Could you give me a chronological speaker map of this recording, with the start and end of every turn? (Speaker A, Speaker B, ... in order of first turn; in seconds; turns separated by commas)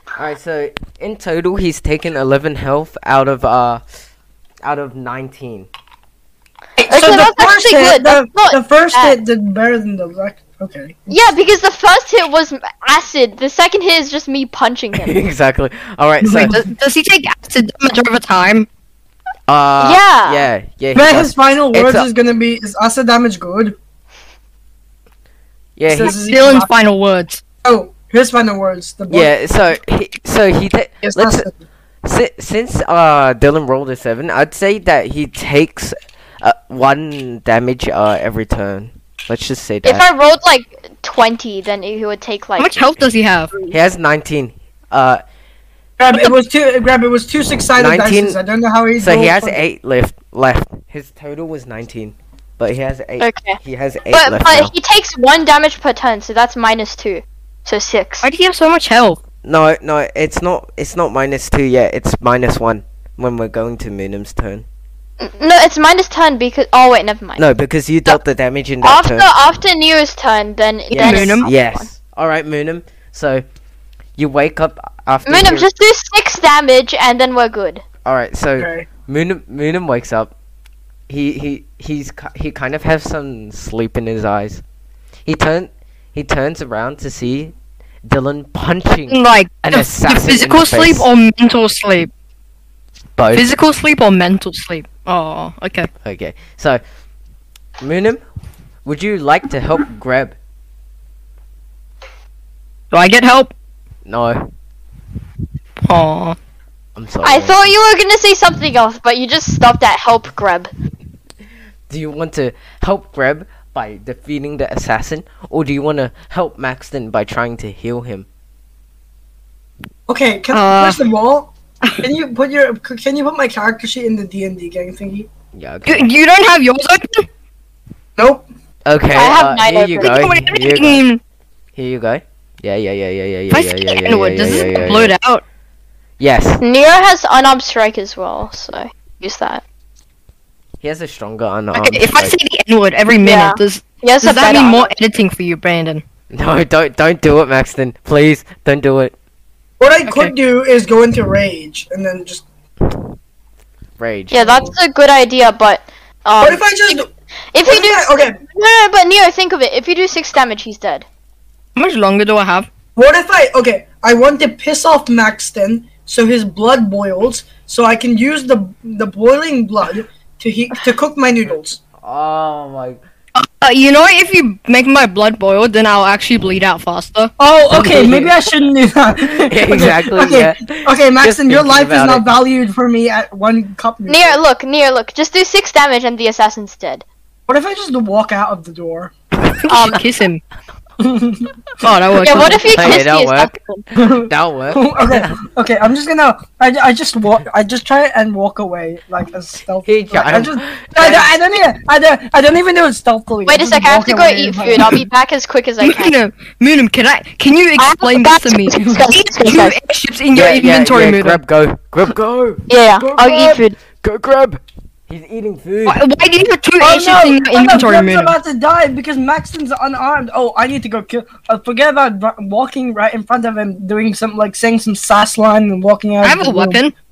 Speaker A: 0.1-3.8, Speaker A: 4.6-5.7, Speaker B: 6.8-11.1, Speaker C: 6.9-9.2, Speaker C: 11.1-15.2, Speaker A: 15.0-16.6, Speaker B: 16.2-16.6, Speaker D: 16.5-18.7, Speaker A: 19.5-22.1, Speaker C: 19.8-20.5, Speaker B: 20.9-23.7, Speaker A: 25.8-26.1, Speaker B: 25.9-26.7, Speaker D: 25.9-27.4, Speaker B: 27.6-29.3, Speaker A: 29.1-31.4, Speaker B: 31.0-31.5, Speaker A: 32.0-40.0, Speaker C: 39.8-42.9, Speaker D: 42.6-43.6, Speaker A: 43.7-45.2, Speaker B: 46.0-49.6, Speaker A: 47.8-48.4, Speaker A: 49.0-54.7, Speaker C: 53.2-53.6, Speaker C: 54.1-58.2, Speaker D: 58.2-59.2, Speaker A: 59.4-64.6, Speaker C: 65.2-67.4, Speaker A: 67.4-69.3, Speaker C: 68.8-71.9, Speaker A: 70.9-73.4, Speaker D: 71.0-71.5, Speaker A: 74.2-75.7, Speaker C: 75.2-77.8, Speaker A: 78.0-80.3, Speaker B: 78.6-78.9, Speaker A: 81.1-84.6, Speaker A: 85.2-91.1, Speaker D: 89.1-92.1, Speaker A: 93.2-93.5, Speaker D: 93.3-95.9, Speaker A: 96.0-96.8, Speaker A: 97.8-98.2, Speaker A: 98.8-100.3, Speaker D: 102.9-103.5, Speaker A: 104.0-104.5, Speaker D: 105.9-106.4, Speaker A: 107.0-107.7, Speaker C: 107.2-110.7, Speaker A: 111.9-118.2, Speaker B: 120.1-125.3, Speaker D: 120.5-121.0, Speaker A: 125.5-126.1, Speaker D: 125.9-127.3, Speaker B: 128.2-128.4, Speaker A: 128.8-131.0, Speaker C: 129.1-130.1, Speaker D: 130.0-131.2, Speaker A: 131.8-135.1, Speaker D: 133.5-135.4, Speaker A: 136.2-136.6, Speaker C: 136.6-139.6, Speaker A: 140.8-142.3, Speaker D: 141.7-146.0, Speaker C: 143.2-144.9, Speaker A: 146.3-149.1, Speaker B: 149.8-152.4, Speaker D: 150.1-150.3, Speaker A: 154.0-154.5, Speaker C: 154.3-157.0, Speaker B: 154.4-154.7, Speaker B: 156.4-157.1, Speaker C: 157.5-161.0, Speaker B: 157.7-158.4, Speaker D: 161.8-162.7, Speaker B: 162.9-171.8, Speaker A: 172.0-173.0, Speaker D: 173.3-177.3, Speaker B: 177.4-184.4, Speaker A: 177.7-178.3, Speaker A: 179.4-182.3, Speaker C: 184.1-187.0, Speaker B: 187.5-189.1, Speaker A: 189.5-190.0, Speaker D: 189.6-190.4, Speaker B: 191.0-191.5, Speaker D: 191.8-192.9, Speaker C: 192.2-193.8, Speaker A: 192.6-195.4, Speaker B: 193.9-205.0, Speaker A: 199.8-201.3, Speaker C: 203.4-206.1, Speaker D: 205.8-211.4, Speaker C: 207.8-209.8, Speaker A: 210.3-213.4, Speaker C: 212.7-213.8, Speaker B: 213.2-213.6, Speaker A: 214.0-216.0, Speaker D: 215.8-218.3, Speaker B: 216.8-226.8, Speaker D: 226.2-226.9